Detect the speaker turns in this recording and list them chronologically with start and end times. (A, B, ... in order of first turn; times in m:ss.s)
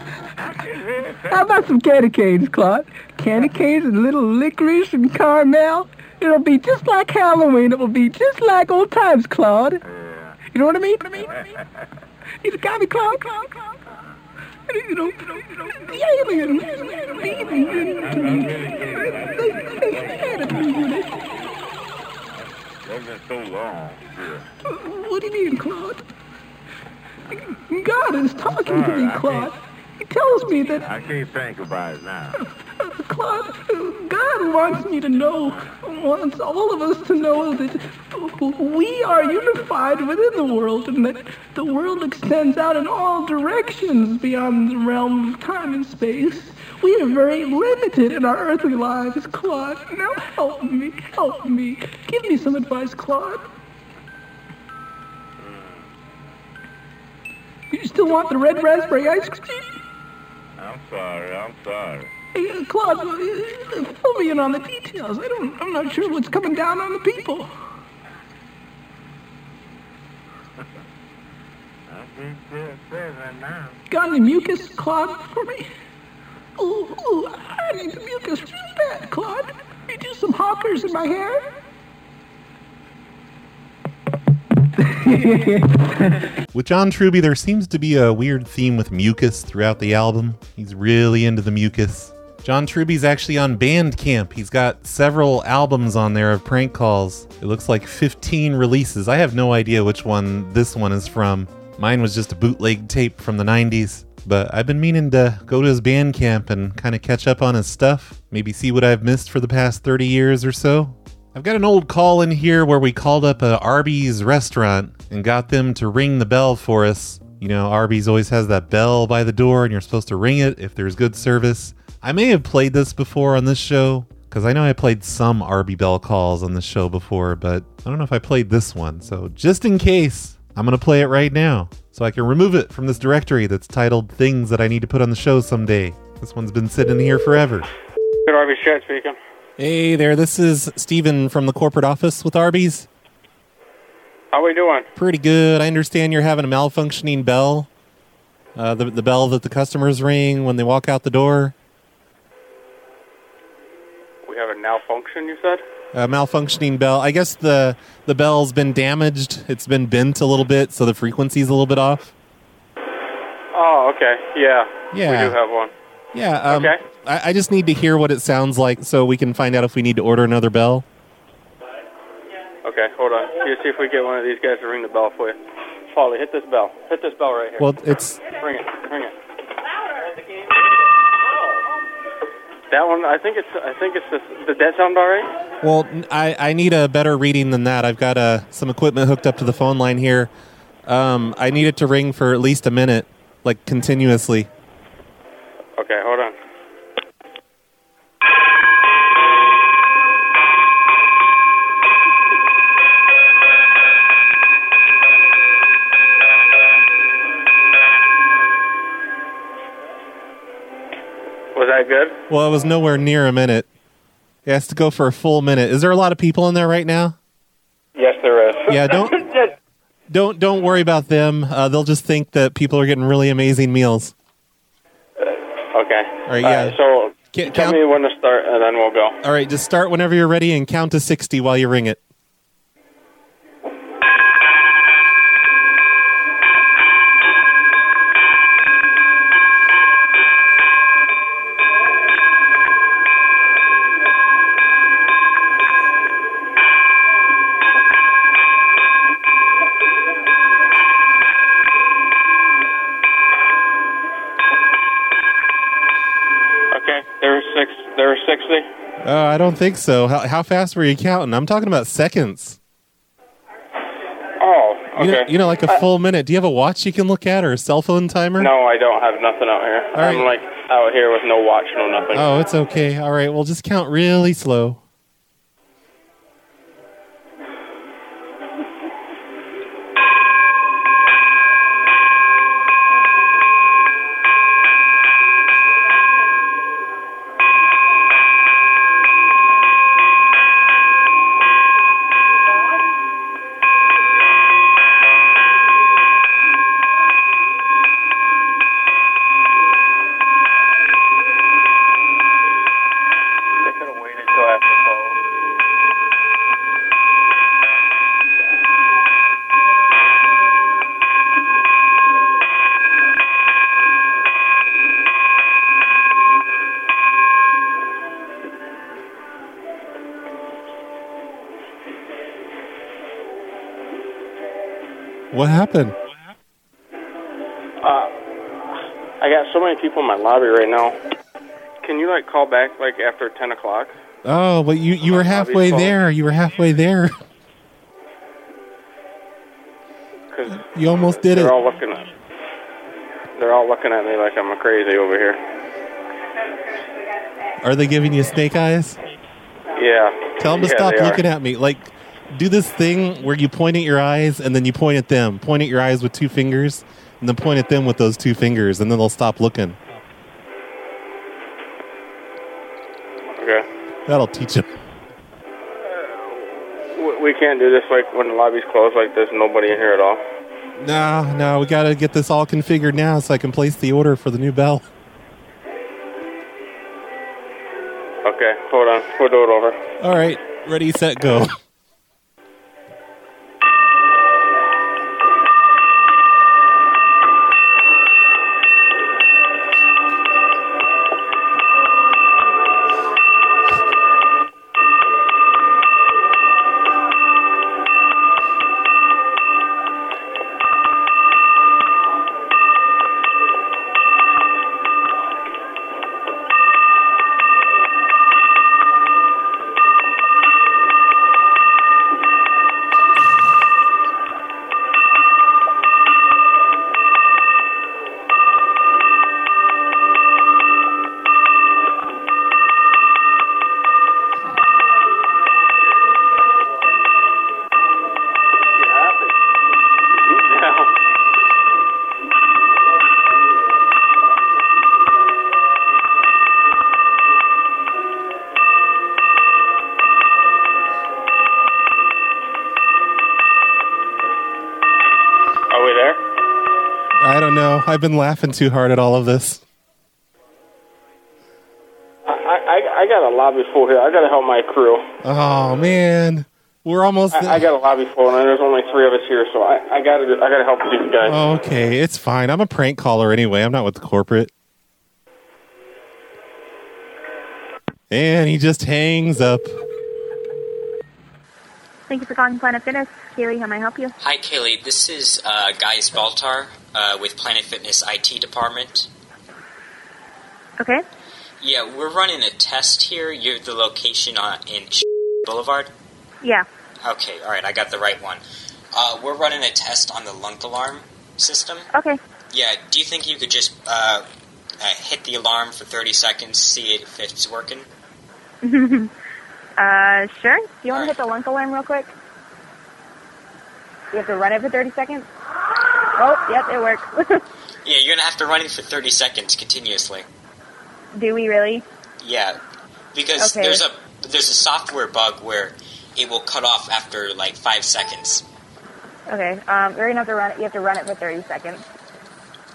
0:00.4-0:01.4 A
0:01.3-0:09.8 B
0:09.9-0:10.4 A
0:10.5-0:11.4 B
0:11.2-0:11.8 A
0:12.4-0:13.7 B
0:14.7-0:21.2 B
0:17.3-0:20.8 A
0:22.3-0:24.5 A
0:24.7-0:26.1 B
0:27.5-0:30.9 B
0:28.5-0:29.5 A
0:30.8-0:32.4 A
0:32.8-0:53.5 B
0:55.4-0:55.9 A
0:57.7-0:59.7 B
1:00.6-1:02.1 A
1:02.3-1:07.5 B
1:11.9-1:13.8 A
1:13.9-1:15.7 B
1:16.6-1:21.5 B
1:24.8-1:26.2 B
1:26.5-2:17.7 C
2:18.3-2:19.2 D
2:19.6-2:22.9 C
2:24.3-2:24.9 D
2:25.0-2:27.7 C
2:28.6-2:31.5 C
2:34.2-2:35.6 D
2:35.9-2:42.1 C
2:43.5-2:45.7 D
2:44.9-2:45.4 C
2:46.1-2:50.8 C
2:46.5-2:46.8 D
2:52.6-2:55.4 D
2:55.9-2:57.7 D
2:57.6-2:58.2 C
2:58.2-2:59.2 D
3:02.7-3:05.3 D
3:05.6-3:10.3 C
3:10.8-3:14.5 C
3:15.8-3:16.4 D
3:31.5-3:32.2 D
3:32.3-3:33.7 C
3:34.5-3:37.2 C
3:38.0-3:39.4 D
3:38.7-3:39.2 C
3:40.1-3:44.1 C
3:45.2-3:49.2 D
3:46.3-3:46.8 C
3:47.3-3:47.8 C
3:49.2-3:52.0 C
4:16.7-4:18.7 D
4:19.0-4:22.6 C
4:24.4-4:25.8 D
4:25.0-4:28.5 C
4:28.4-4:32.3 D
4:30.0-4:30.3 C
4:32.1-4:34.8 C
5:03.6-5:05.2 D
5:25.3-5:26.0 C
5:27.8-5:28.1 D
5:29.2-5:31.0 D
5:31.8-5:33.9 D
5:34.2-5:37.2 C
5:35.0-5:36.0 D
5:40.3-5:40.6 D
5:40.5-5:41.6 C
5:41.2-5:42.1 D
5:43.4-5:45.4 D
5:47.6-5:49.0 C
5:49.8-5:51.2 D
5:50.4-5:59.8 C
6:03.4-6:03.7 D
6:04.1-6:04.7 C
6:05.9-6:10.2 D
6:10.8-6:14.8 C
6:18.2-6:19.8 D
6:20.0-6:21.6 C
7:08.7-7:09.3 D
7:10.2-7:10.9 D
7:25.7-7:26.2 D
7:27.2-7:29.6 C
7:32.3-7:35.0 D
7:35.2-7:37.6 C
7:37.3-7:41.4 D
7:41.2-7:44.5 C
7:48.1-7:49.7 C
7:52.2-7:54.1 E
7:54.2-7:59.1 F
8:01.6-8:05.9 F
8:07.0-8:08.4 F
8:08.9-8:11.9 F
8:12.5-8:14.2 F
8:14.8-8:17.9 F
8:19.8-8:22.1 E
8:20.9-8:21.2 F
8:24.2-8:25.2 E
8:26.2-8:27.2 E
8:27.8-8:30.2 F
8:31.3-8:31.8 E
8:32.2-8:32.6 F
8:33.1-8:38.4 F
8:39.4-8:41.8 E